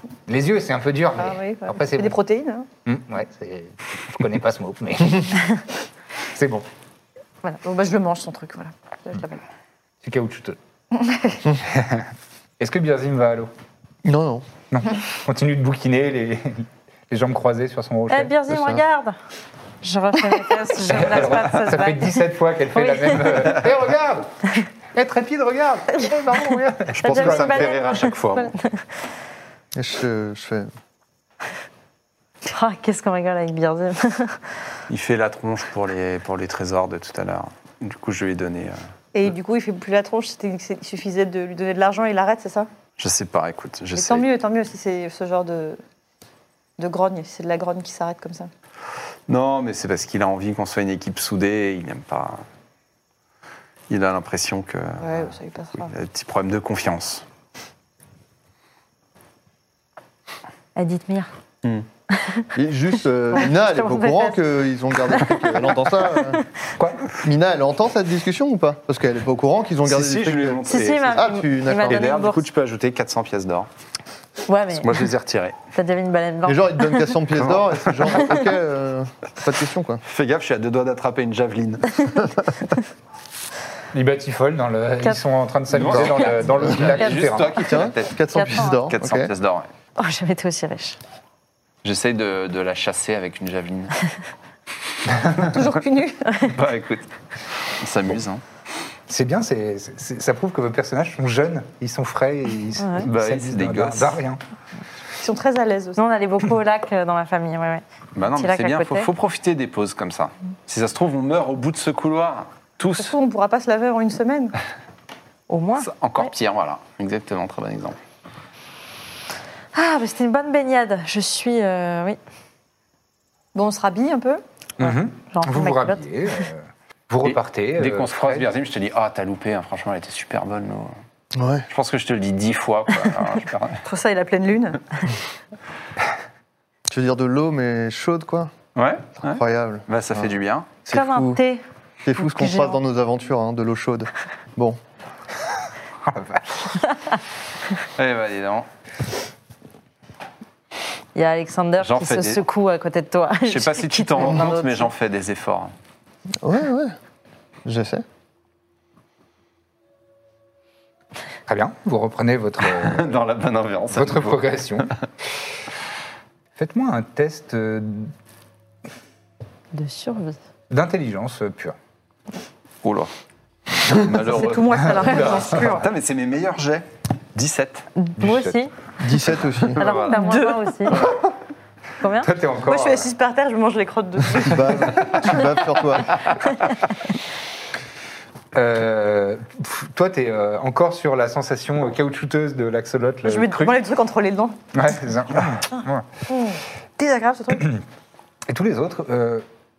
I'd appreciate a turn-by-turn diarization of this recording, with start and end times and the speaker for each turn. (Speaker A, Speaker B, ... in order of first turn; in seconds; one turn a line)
Speaker A: 0.3-2.2
Speaker B: 1.2-2.7
Speaker A: 2.9-5.6
Speaker A: 6.3-6.7
Speaker B: 7.4-9.4
Speaker A: 10.0-10.6
Speaker B: 10.9-11.5
Speaker A: 11.6-13.5
Speaker C: 14.0-14.5
Speaker A: 14.7-18.8
Speaker D: 18.1-19.1
Speaker D: 19.8-22.2
Speaker A: 20.8-27.7
Speaker D: 22.8-23.5
Speaker E: 26.9-28.5
Speaker D: 27.0-28.8
Speaker C: 29.8-30.7
Speaker D: 32.5-34.4
Speaker E: 34.9-38.8
Speaker B: 39.1-42.7
Speaker E: 43.0-44.3
Speaker B: 44.0-45.8
Speaker B: 46.8-48.5
Speaker E: 49.3-52.4
Speaker E: 53.9-57.2
Speaker B: 55.0-55.9
Speaker D: 60.8-61.3
Speaker D: 62.2-62.5
Speaker C: 62.5-66.4
Speaker D: 63.4-64.4
Speaker D: 66.2-66.4
Speaker A: 66.8-67.1
Speaker C: 67.2-72.1
Speaker E: 69.8-73.7
Speaker D: 70.7-72.4
Speaker D: 74.5-74.9
Speaker E: 74.8-75.6
Speaker D: 75.7-77.2
Speaker C: 76.5-80.0
Speaker E: 77.5-78.3
Speaker E: 80.1-82.3
Speaker A: 83.9-87.6
Speaker E: 85.7-89.7
Speaker C: 85.8-86.8
Speaker C: 87.5-89.3
Speaker D: 88.3-88.8
Speaker D: 90.0-91.0
Speaker E: 91.8-94.0
Speaker A: 95.2-95.5
Speaker B: 95.5-96.5
Speaker E: 96.4-97.1
Speaker E: 97.6-98.4
Speaker A: 99.1-104.4
Speaker D: 102.8-103.1
Speaker E: 103.0-104.2
Speaker B: 105.2-106.0
Speaker D: 106.0-109.1
Speaker E: 108.2-113.2
Speaker B: 113.0-114.5
Speaker D: 115.5-116.3
Speaker E: 115.8-118.0
Speaker D: 119.7-122.2
Speaker B: 123.5-124.4
Speaker A: 124.8-128.5
Speaker D: 124.8-126.0
Speaker E: 127.2-130.9
Speaker C: 131.3-131.7
Speaker E: 131.7-133.8
Speaker B: 133.8-134.8
Speaker C: 136.9-138.5
Speaker E: 138.8-140.7
Speaker C: 139.2-140.3
Speaker C: 140.9-141.4
Speaker D: 140.9-141.6
Speaker C: 142.0-144.8
Speaker D: 142.2-142.8
Speaker A: 146.1-146.8
Speaker E: 148.0-148.7
Speaker D: 151.2-154.9
Speaker E: 151.8-152.4
Speaker E: 153.5-155.7
Speaker C: 156.4-157.0
Speaker C: 157.7-158.1
Speaker A: 161.5-163.2
Speaker E: 162.7-164.9
Speaker A: 163.9-164.9
Speaker A: 166.6-168.1
Speaker D: 169.7-170.4
Speaker A: 170.7-171.8
Speaker E: 172.8-173.1
Speaker E: 173.9-177.9
Speaker B: 174.0-175.9
Speaker D: 178.0-178.7
Speaker A: 178.2-178.6
Speaker C: 179.0-179.8
Speaker E: 179.6-180.2
Speaker D: 179.8-181.0
Speaker B: 180.0-181.0
Speaker D: 182.0-182.3
Speaker A: 182.2-183.1
Speaker B: 182.6-184.8
Speaker C: 184.4-186.2
Speaker A: 188.5-193.8
Speaker B: 193.2-194.6
Speaker A: 194.7-196.1
Speaker B: 196.3-197.7
Speaker A: 197.6-197.8
Speaker A: 198.5-199.5